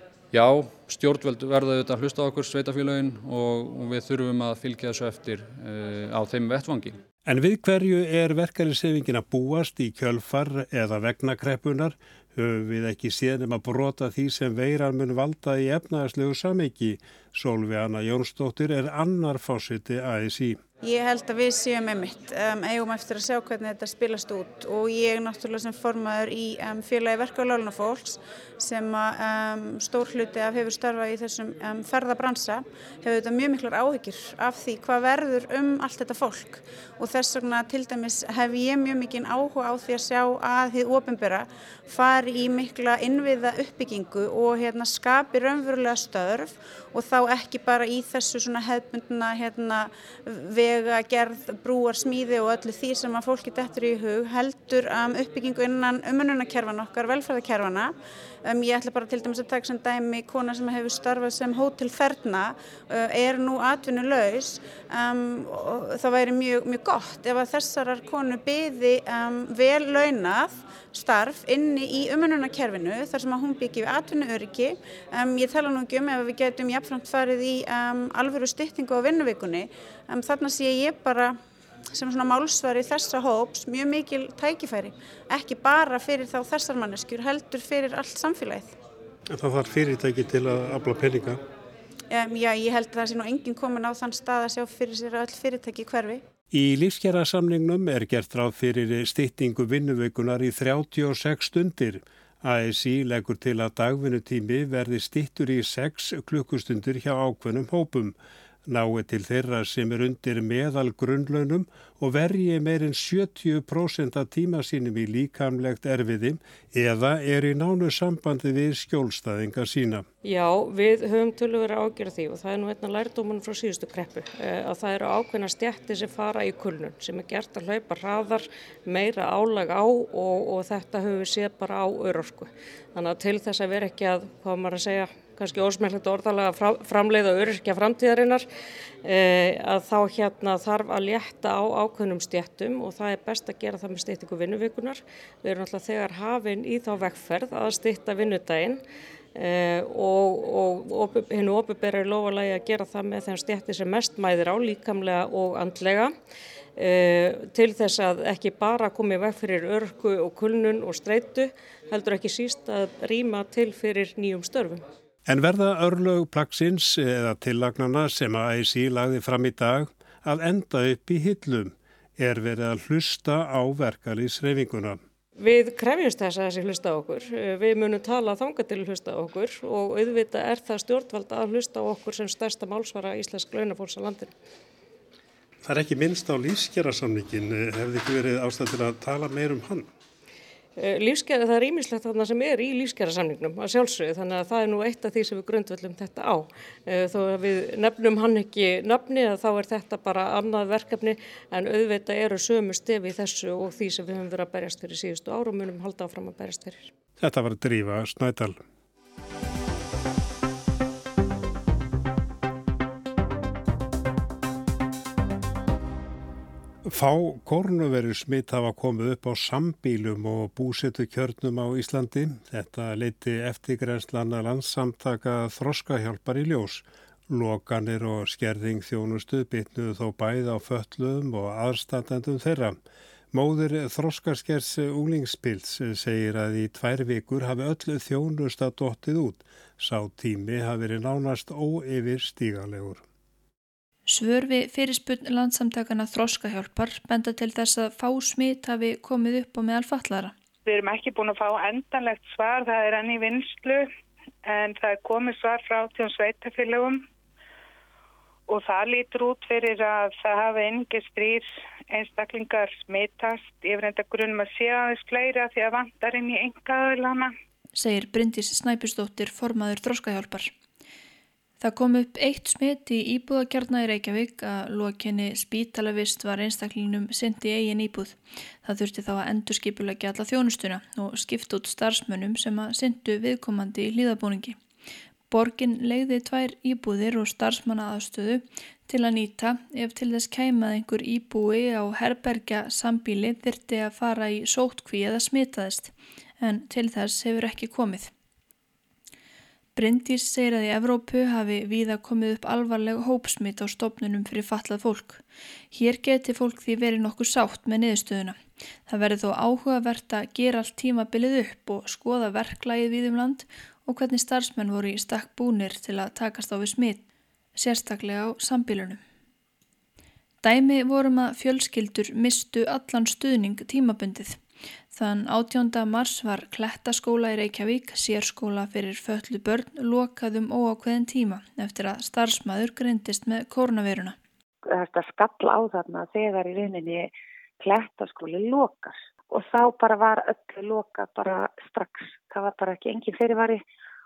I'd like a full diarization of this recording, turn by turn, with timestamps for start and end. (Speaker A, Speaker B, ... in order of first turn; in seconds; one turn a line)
Speaker A: 0.3-7.0
Speaker B: 7.2-20.6
Speaker C: 20.8-57.9
Speaker C: 58.5-81.4
Speaker C: 81.9-88.7
Speaker B: 89.3-91.4
Speaker C: 92.1-96.2
Speaker B: 96.5-120.1
Speaker D: 120.2-138.5
Speaker D: 139.0-148.8
Speaker D: 149.3-156.1
Speaker D: 156.8-164.8
Speaker B: 165.3-175.0
Speaker D: 175.4-184.3
Speaker B: 185.6-189.9
Speaker D: 190.8-206.9
Speaker B: 207.2-208.6
Speaker B: 216.9-232.8
Speaker B: 233.3-243.0
Speaker E: 244.1-250.3
Speaker F: 250.7-253.9
Speaker F: 254.4-257.0
Speaker F: 258.5-267.3
Speaker E: 267.8-270.5
Speaker E: 271.6-284.6
Speaker E: 285.3-298.1
Speaker E: 299.8-317.0
Speaker E: 317.6-319.0
Speaker E: 320.4-324.4
Speaker E: 324.9-334.2
Speaker G: 334.7-343.6